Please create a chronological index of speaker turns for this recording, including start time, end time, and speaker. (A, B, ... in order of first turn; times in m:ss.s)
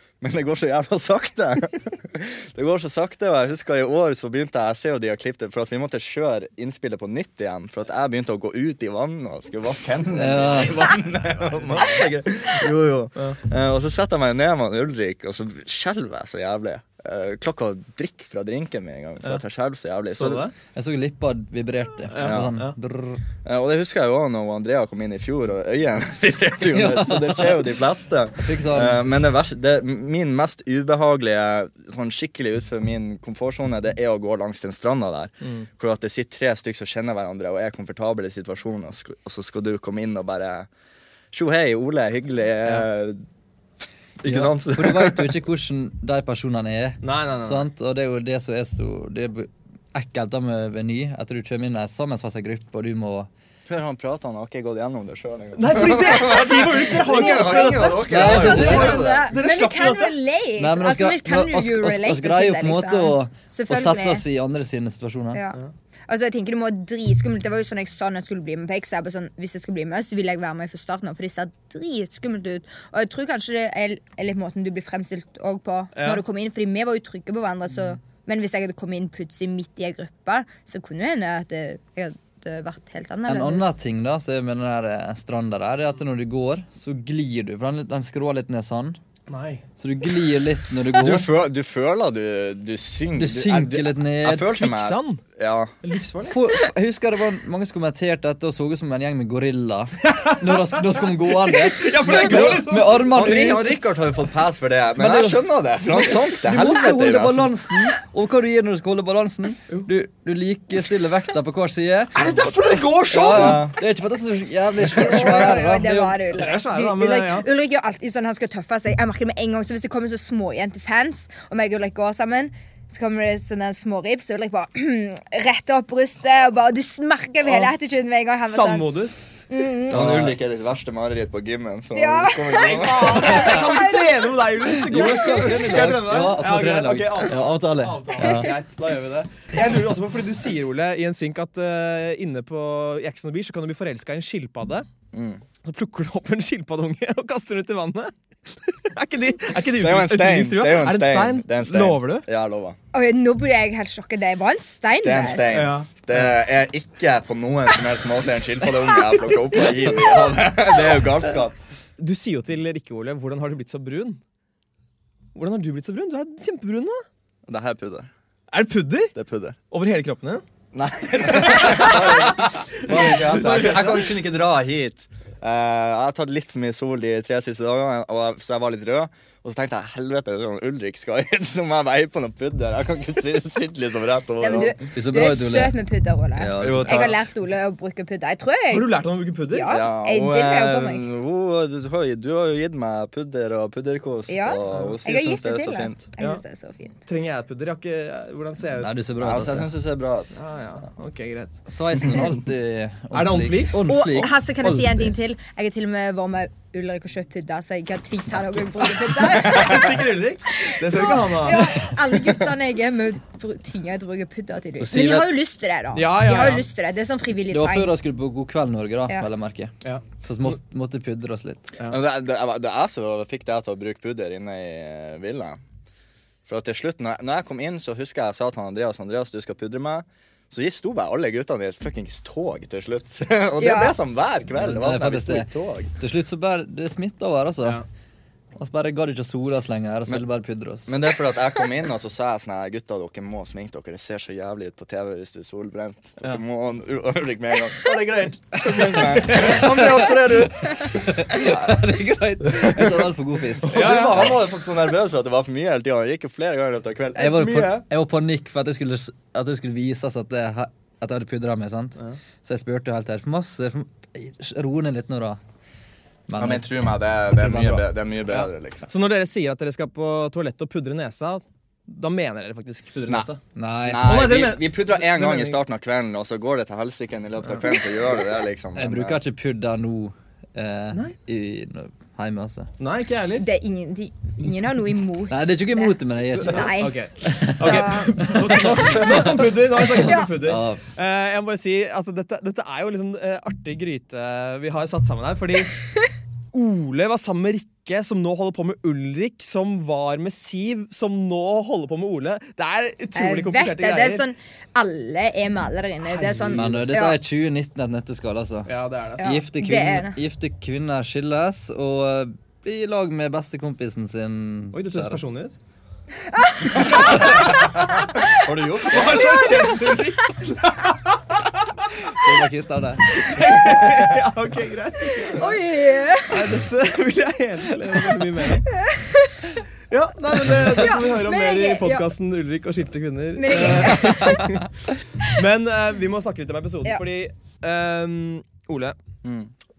0:00.2-0:20.4 A
0:10.2-0:10.9 B
0:11.5-0:12.0 C
0:20.1-0:20.5 C
0:20.7-0:23.2 B
0:22.1-0:22.7 C
0:22.2-0:22.5 A
0:23.4-0:40.7 A
0:26.7-0:27.7 B
0:28.4-0:29.0 B
0:41.3-0:43.2 A
0:44.2-0:45.3 A
0:44.2-0:53.3 B
0:47.0-0:47.6 C
0:53.7-0:59.3 A
0:55.5-1:00.1 C
0:57.2-1:04.2 D
0:58.0-0:59.0 B
1:00.6-1:05.4 B
1:05.3-1:23.7 D
1:15.9-1:16.2 C
1:23.3-1:29.0 B
1:29.3-1:29.6 C
1:29.8-1:31.3 B
1:31.0-1:35.7 A
1:33.2-1:34.5 B
1:34.4-1:35.2 C
1:35.8-1:36.4 C
1:36.2-1:43.8 B
1:40.1-1:40.6 C
1:41.4-1:43.5 C
1:42.1-1:47.5 A
1:45.0-1:52.4 B
1:52.2-1:53.6 C
1:52.2-1:53.8 A
1:53.1-1:56.5 B
1:54.9-2:10.0 D
1:56.4-1:57.5 C
2:07.4-2:07.7 C
2:08.5-2:09.3 C
2:09.9-2:13.6 A
2:09.9-2:10.3 B
2:11.9-2:14.4 D
2:12.6-2:24.9 C
2:14.6-2:18.6 B
2:25.1-2:25.4 A
2:25.6-2:32.3 C
2:29.7-2:32.8 A
2:32.9-2:35.5 D
2:35.0-2:41.6 A
2:35.5-2:36.2 C
2:42.0-2:44.2 C
2:45.3-2:47.0 C
2:47.4-2:48.1 A
2:48.5-2:49.1 C
2:49.1-2:49.6 A
2:49.7-2:50.4 C
2:50.7-3:04.7 A
2:51.2-2:54.1 C
3:04.4-3:08.8 D
3:04.9-3:05.8 B
3:06.4-3:07.1 B
3:06.6-3:07.2 A
3:08.7-3:09.7 C
3:09.5-3:11.1 D
3:09.7-3:16.1 A
3:14.3-3:17.0 D
3:14.7-3:15.0 C
3:17.0-3:18.9 C
3:18.7-3:19.7 B
3:19.2-3:20.4 A
3:20.3-3:21.6 C
3:21.7-3:25.1 B
3:23.1-3:23.8 C
3:23.8-3:37.9 D
3:28.9-3:31.7 C
3:34.8-3:35.3 B
3:35.9-3:36.6 C
3:37.5-3:41.7 B
3:41.9-3:45.6 A
3:46.4-3:55.9 A
3:53.6-3:54.0 D
3:54.6-3:57.8 B
3:58.6-4:01.0 B
4:00.9-4:11.8 A
4:08.6-4:09.6 C
4:09.4-4:10.0 B
4:10.6-4:14.3 B
4:12.5-4:13.1 A
4:13.6-4:17.8 A
4:13.6-4:14.4 C
4:17.2-4:25.4 B
4:26.3-4:26.6 B
4:26.4-4:28.9 A
4:27.3-4:27.8 B
4:28.3-4:33.4 C
4:33.5-4:34.3 B
4:33.8-4:39.2 A
4:34.0-4:35.6 C
4:38.7-4:42.7 B
4:42.8-4:43.5 C
4:43.4-4:48.4 D
4:45.3-4:50.8 B
4:46.6-4:55.7 C
4:49.9-4:50.3 D
4:56.5-5:04.2 C
5:03.1-5:07.2 D
5:06.1-5:07.0 C
5:06.5-5:15.2 B
5:08.7-5:09.4 C
5:09.2-5:10.2 D
5:14.7-5:15.6 C
5:16.5-5:17.0 D
5:16.9-5:17.7 C
5:17.0-5:17.6 A
5:18.3-5:19.8 A
5:18.9-5:21.5 C
5:22.1-5:23.8 B
5:23.1-5:25.6 C
5:25.3-5:26.5 D
5:26.3-5:28.7 C
5:28.7-5:29.4 D
5:29.9-5:34.7 C
5:30.5-5:32.1 D
5:33.4-5:34.6 D
5:35.3-5:39.0 C
5:39.2-5:39.5 A